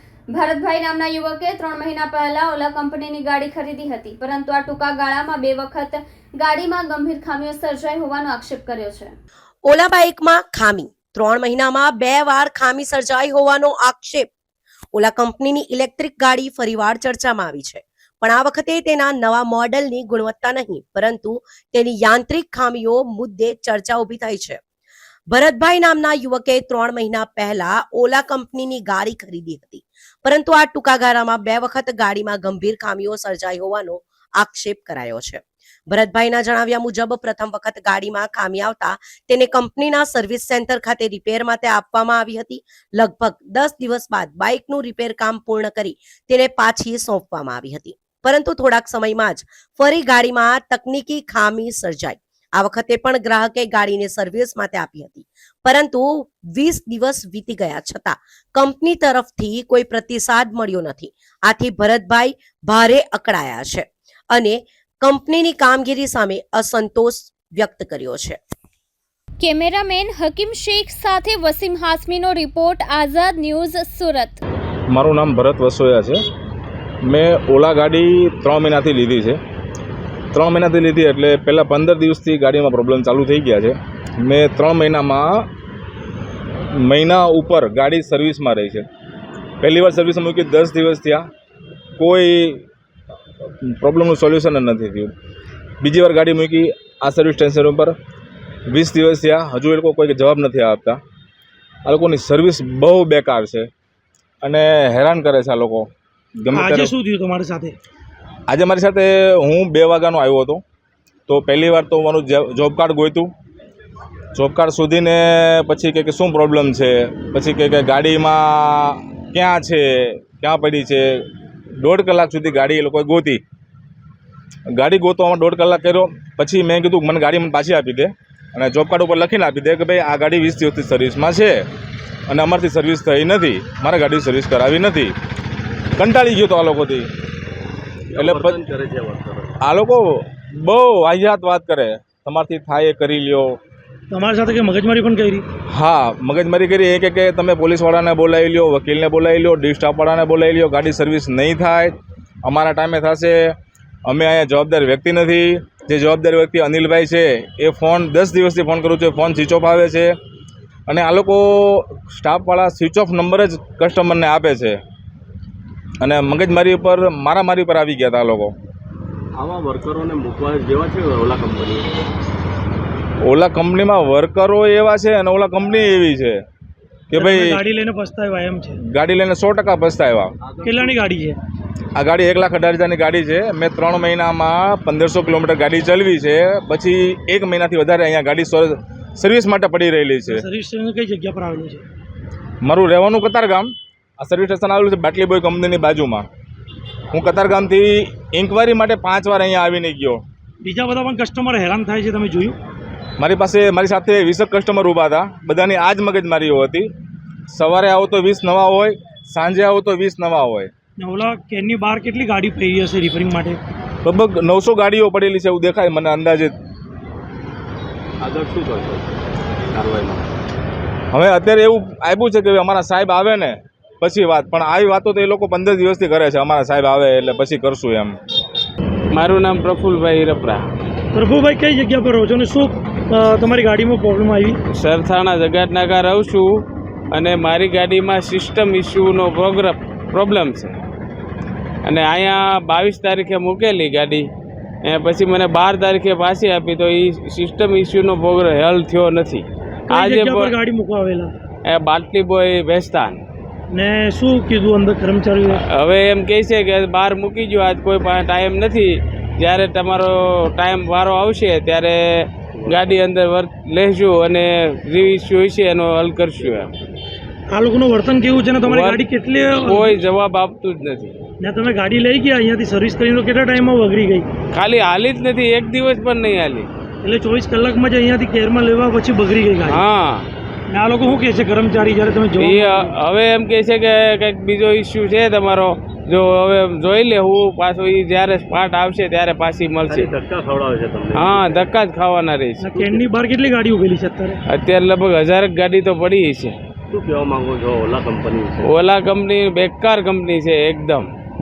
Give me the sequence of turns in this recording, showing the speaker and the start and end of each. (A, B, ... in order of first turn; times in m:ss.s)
0:00.3-0:09.1 A
0:09.6-0:14.3 B
0:14.9-0:24.6 B
0:25.3-1:08.4 B
1:09.4-1:14.4 A
1:14.9-1:16.2 C
1:17.0-1:19.4 C
1:20.3-1:25.5 C
1:26.7-1:28.9 C
1:29.6-1:31.2 C
1:32.0-1:32.6 C
1:33.6-1:35.1 C
1:35.8-1:37.9 C
1:38.7-1:41.0 C
1:41.8-1:43.7 C
1:44.4-1:46.9 C
1:46.5-1:47.8 D
1:48.5-1:50.6 C
1:51.3-1:53.3 C
1:54.3-2:01.2 C
2:01.8-2:03.4 C
2:04.7-2:11.6 C
2:12.3-2:15.1 C
2:16.0-2:17.1 C
2:18.1-2:19.6 E
2:18.1-2:18.6 C
2:19.6-2:23.6 C
2:24.1-2:25.4 D
2:25.7-2:40.1 C
2:40.9-2:44.8 C
2:46.0-2:48.5 C
2:49.4-2:52.0 E
2:53.2-2:56.4 C
2:57.1-2:57.6 C
2:57.1-2:58.7 D
2:58.8-3:00.3 C
3:00.4-3:01.0 E
3:00.6-3:01.4 D
3:01.9-3:10.5 C
3:10.3-3:11.8 D
3:12.6-3:16.2 C
3:17.1-3:20.2 C
3:20.6-3:22.6 D
3:23.2-3:26.9 C
3:27.5-3:30.7 C
3:31.0-3:33.6 D
3:34.0-3:36.5 C
3:38.2-3:39.1 E
3:39.7-3:40.3 E
3:41.1-3:48.2 C
3:49.1-3:50.6 F
3:51.1-3:54.6 D
3:54.7-4:00.8 F
4:01.8-4:04.3 F
4:04.8-4:10.6 F
4:09.9-4:11.3 D
4:11.6-4:13.2 F
4:13.7-4:15.6 D
4:15.5-4:26.7 F
4:22.5-4:23.1 E
4:26.4-4:26.7 E
4:27.5-4:30.0 D
4:28.6-4:31.1 F
4:31.4-4:34.3 D
4:34.5-4:36.7 F
4:37.0-4:39.8 D
4:39.6-4:40.3 F
4:40.7-4:42.9 D
4:42.4-4:50.1 F
4:49.8-4:51.7 E
4:51.1-4:52.7 F
4:52.6-4:54.4 D
4:54.5-4:56.6 F
4:56.9-4:58.8 E
4:58.6-5:01.1 F